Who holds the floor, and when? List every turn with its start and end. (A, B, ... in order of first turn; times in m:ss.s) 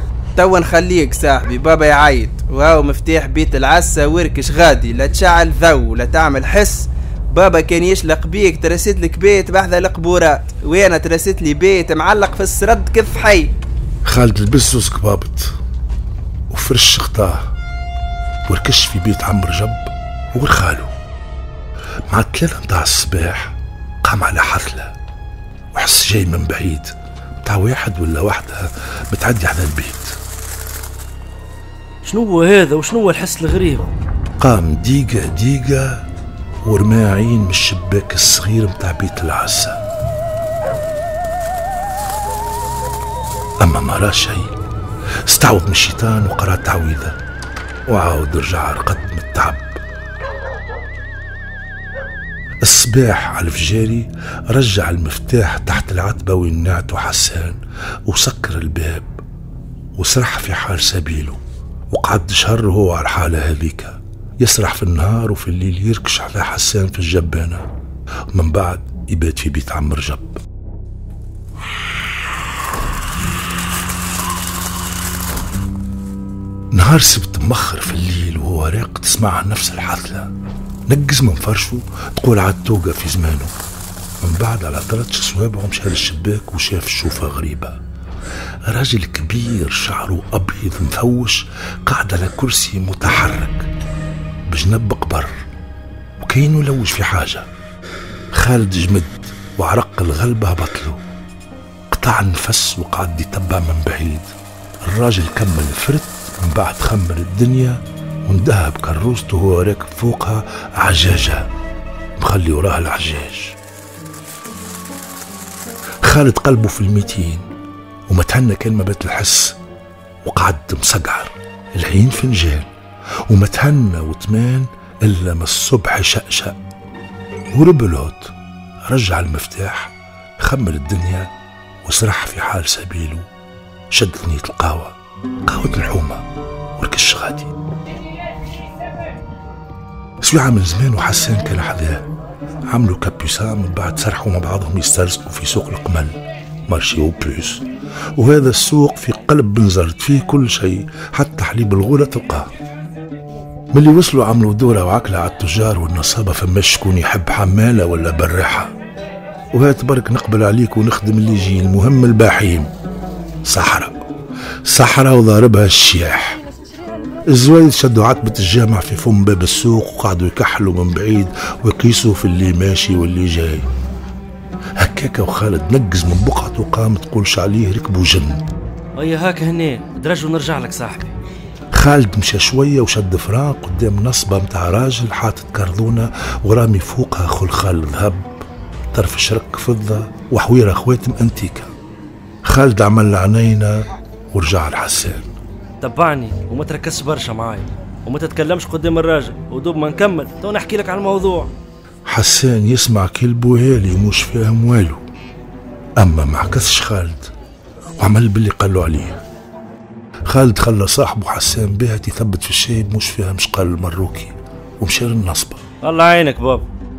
0:00.4-0:13.5 A
0:14.1-0:15.5 B
0:16.5-0:17.5 B
0:18.5-0:20.9 B
0:22.1-0:24.9 B
0:25.7-0:26.9 B
0:27.4-0:30.2 B
0:32.0-0:33.9 C
0:34.4-0:36.0 B
0:36.6-0:39.8 B
0:43.6-0:44.5 B
0:45.2-0:47.2 B
0:47.9-0:49.8 B
0:52.6-0:59.1 B
1:00.0-1:01.4 B
1:01.9-1:07.6 B
1:08.3-1:10.4 B
1:16.7-1:20.3 B
1:20.9-1:23.5 B
1:24.2-1:27.8 B
1:28.7-1:33.7 B
1:34.5-1:35.4 B
1:36.2-1:37.5 B
1:38.3-1:41.0 B
1:41.9-1:44.3 B
1:44.8-1:51.5 B
1:52.2-1:53.6 B
1:56.0-1:57.5 B
1:58.1-1:59.6 B
2:00.2-2:02.7 B
2:03.3-2:06.6 B
2:07.5-2:08.3 B
2:08.9-2:11.3 B
2:11.8-2:13.3 B
2:13.9-2:15.0 B
2:15.5-2:16.2 B
2:16.8-2:17.5 B
2:20.2-2:22.0 B
2:22.7-2:26.2 B
2:26.7-2:27.6 B
2:28.2-2:32.5 B
2:33.7-2:38.7 B
2:39.5-2:42.7 B
2:43.5-2:44.0 B
2:44.7-2:46.4 B
2:47.3-2:53.7 B
2:54.8-2:58.4 B
2:59.0-3:01.1 C
3:01.7-3:08.3 B
3:08.9-3:11.7 B
3:12.4-3:15.3 B
3:15.8-3:21.5 C
3:22.1-3:25.0 B
3:26.0-3:27.3 B
3:28.0-3:29.2 B
3:30.3-3:35.6 B
3:35.8-3:36.7 C